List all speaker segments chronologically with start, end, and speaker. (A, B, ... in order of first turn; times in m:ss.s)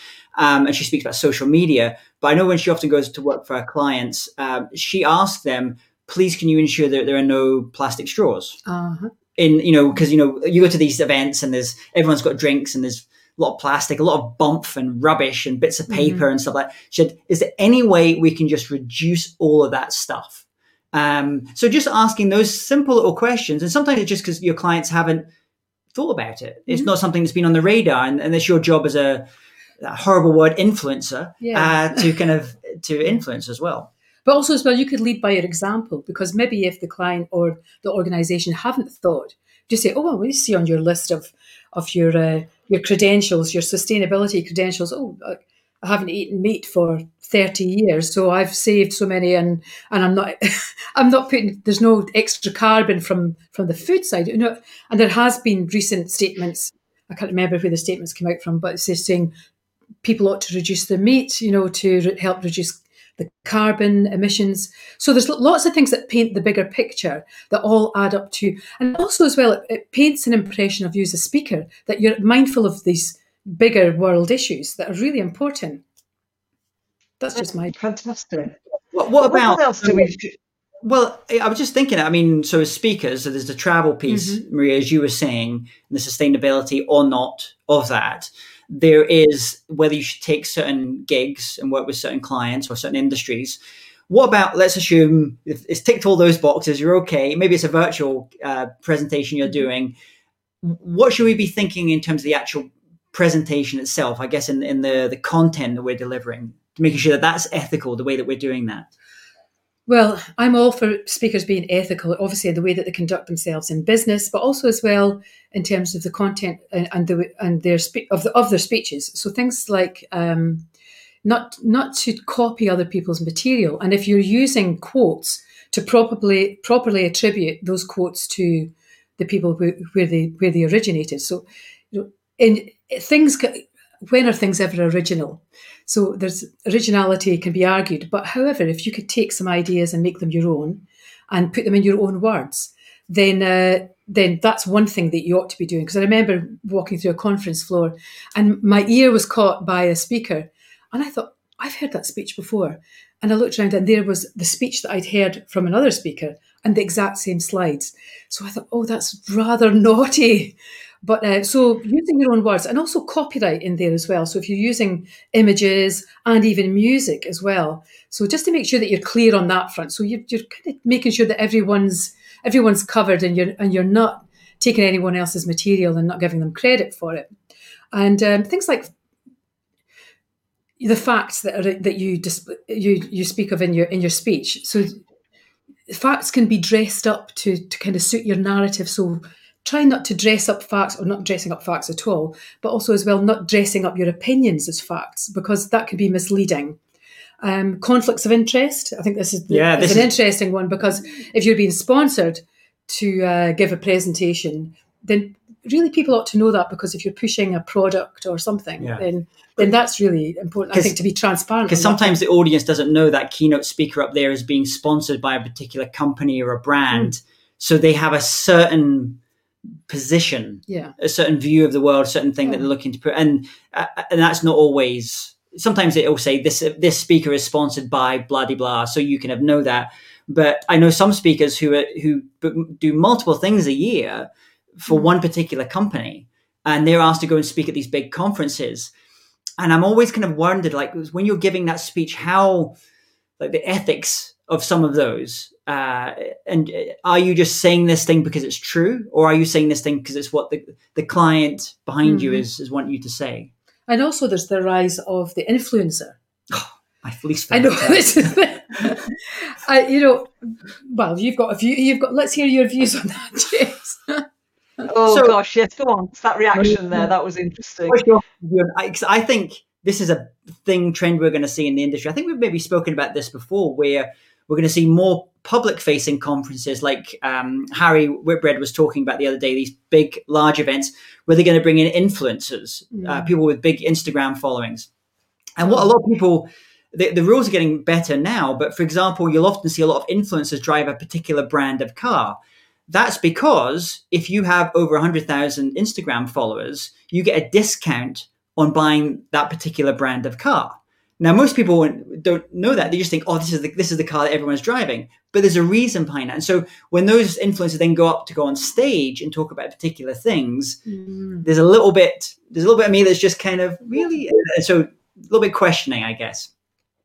0:00.4-0:08.6 A
0:08.7-0:09.1 B
0:09.4-0:25.3 A
0:15.9-0:16.3 B
0:25.9-0:29.3 A
0:29.8-0:33.9 A
0:31.4-0:32.1 B
0:34.2-0:59.3 B
1:00.0-1:15.8 B
1:17.2-1:17.8 B
1:17.7-1:18.6 C
1:18.9-1:20.1 A
1:19.2-1:20.4 C
1:20.8-1:40.0 A
1:24.1-1:24.4 B
1:40.6-1:48.9 A
1:49.9-2:00.7 B
2:01.2-2:57.3 B
2:57.9-2:58.9 B
3:00.8-3:05.0 B
3:05.9-3:16.8 B
3:17.4-3:32.2 B
3:19.5-3:20.1 A
3:28.8-3:29.0 A
3:31.7-3:39.2 A
3:39.9-3:58.9 A
3:40.7-3:41.0 B
3:59.6-4:02.8 A
4:03.4-4:13.5 A
4:12.0-4:12.5 B
4:13.9-4:16.2 B
4:16.5-4:18.8 A
4:17.5-4:24.2 B
4:24.8-4:28.1 C
4:25.1-4:25.4 A
4:26.6-4:27.0 A
4:27.9-4:44.9 A
4:42.9-4:43.3 B
4:45.6-4:52.4 A
4:45.6-4:45.9 B
4:52.9-5:10.8 A
5:10.9-5:11.5 B
5:11.4-5:16.5 A